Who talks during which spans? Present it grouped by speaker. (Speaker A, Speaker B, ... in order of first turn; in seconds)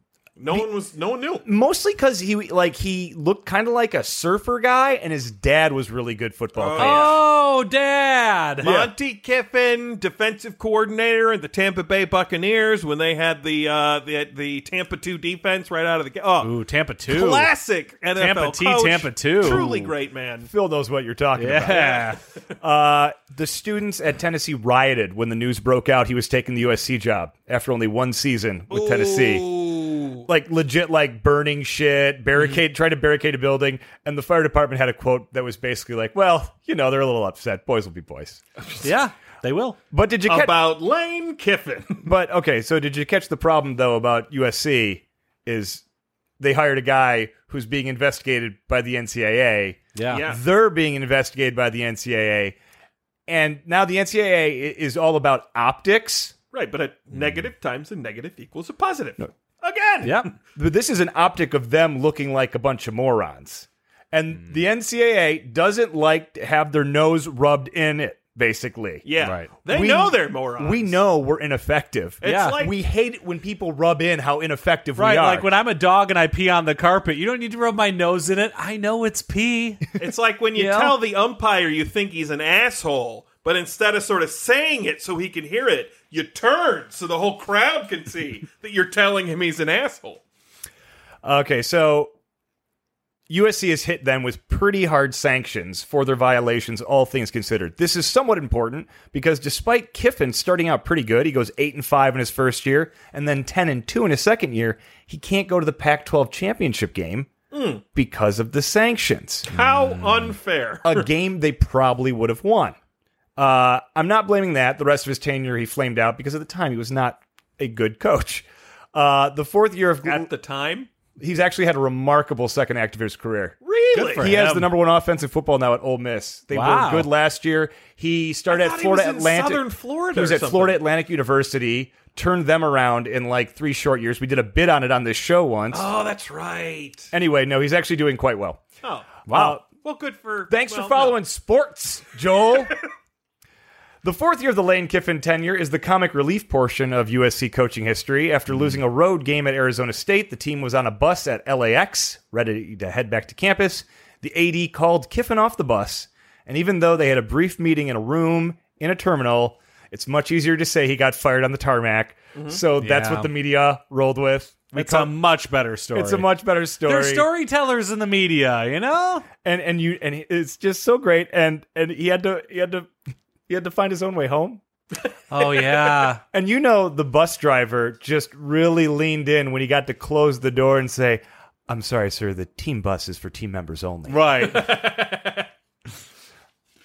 Speaker A: 0.4-1.4, 6.5-7.2, 8.6-16.5, 17.1-20.5, 21.7-22.2, 28.7-30.3, 40.3-42.0, 50.1-50.4, 56.5-60.3, 69.0-71.0, 72.2-72.7, 80.0-90.2, 107.5-107.8, 109.5-111.1, 120.0-120.9, 123.6-124.3, 128.5-130.8, 135.7-137.1, 138.8-141.2, 162.3-162.6, 175.4-176.0, 184.4-185.5
Speaker B: 1.4-7.2, 8.6-8.9, 19.4-19.8, 20.4-22.0, 22.6-29.5, 30.2-38.4, 39.9-40.5, 42.0-45.8, 46.4-52.6, 53.3-56.3, 60.5-69.1, 69.6-75.5, 80.5-80.9, 91.2-92.1, 93.3-107.3, 107.9-109.5, 110.8-112.8, 113.4-120.3, 121.2-123.5, 124.2-135.9, 137.1-138.6, 139.3-139.7, 140.5-142.7, 144.0-165.1, 165.9-167.3, 169.4-172.9, 173.5-174.6, 176.3-184.2
Speaker C: 6.8-8.7, 16.4-17.5, 18.1-19.9, 21.4-22.2, 32.4-32.6, 38.8-39.8, 49.9-50.2, 60.0-60.3, 69.2-69.5, 72.2-72.6, 75.0-79.8, 123.9-124.7, 126.5-127.1, 139.3-139.6, 162.8-163.3, 164.7-166.3, 166.8-169.3, 175.3-176.2, 184.1-184.8